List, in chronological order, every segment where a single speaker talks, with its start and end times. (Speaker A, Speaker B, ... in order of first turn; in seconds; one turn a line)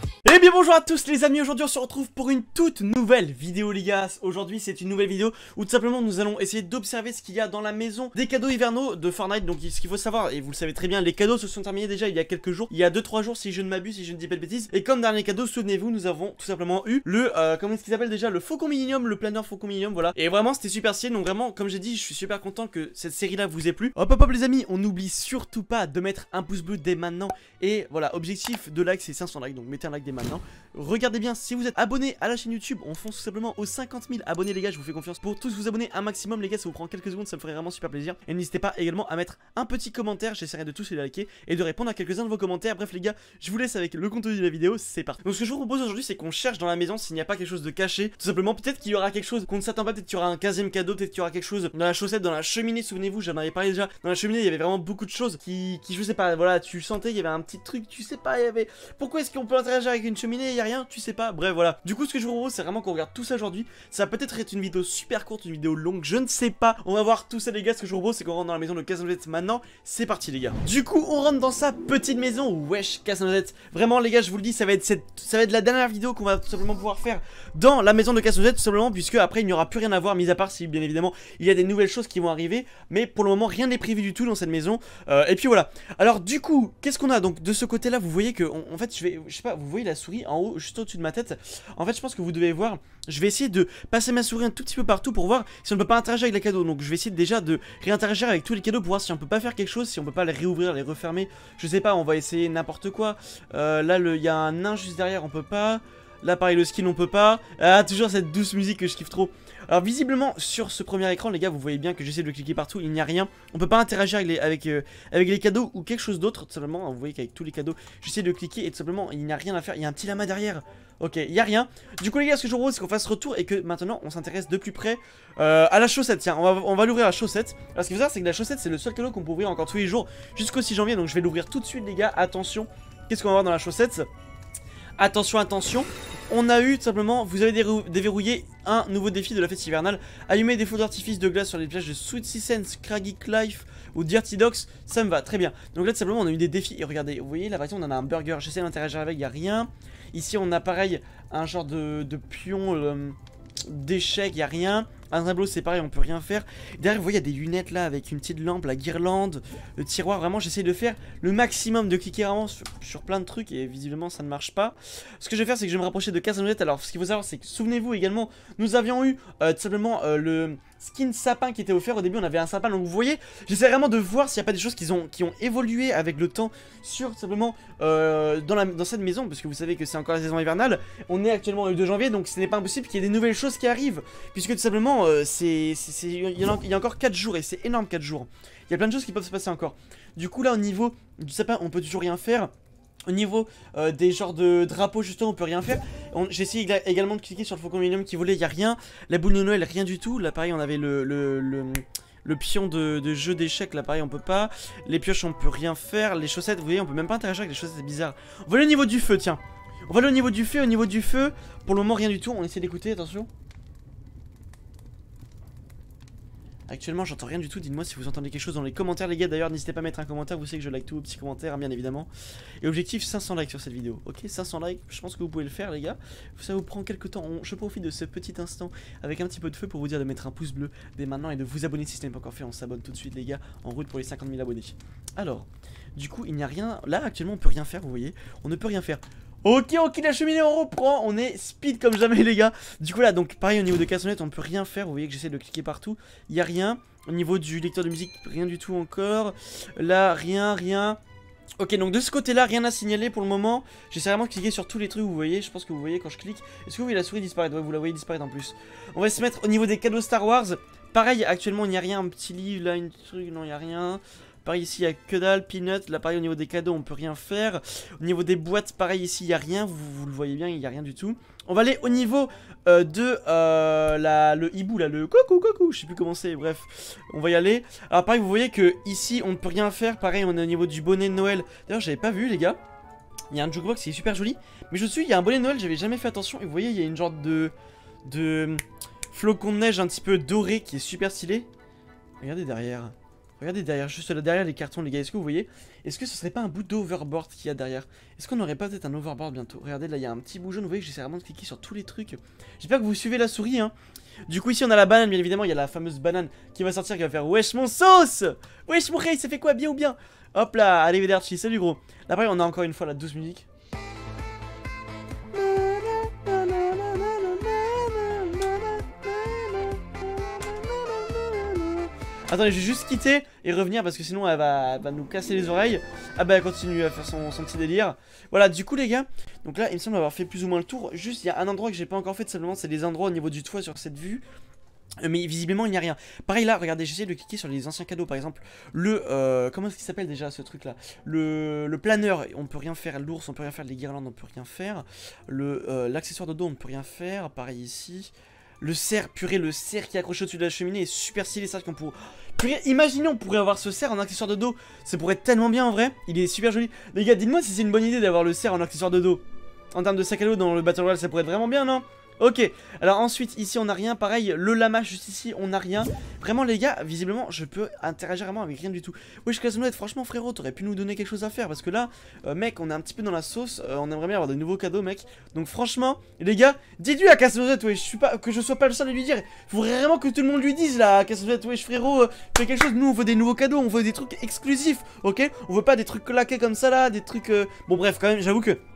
Speaker A: 0.2-134.1
Speaker A: 135.0-192.5
Speaker A: 193.1-213.3
Speaker A: 216.7-222.1
Speaker A: 222.6-251.0
Speaker A: 251.6-282.6
Speaker A: 283.3-287.5
Speaker A: 288.0-291.5
Speaker A: 292.2-303.7
Speaker A: 304.3-313.5
Speaker A: 315.3-334.2
Speaker A: 335.0-388.6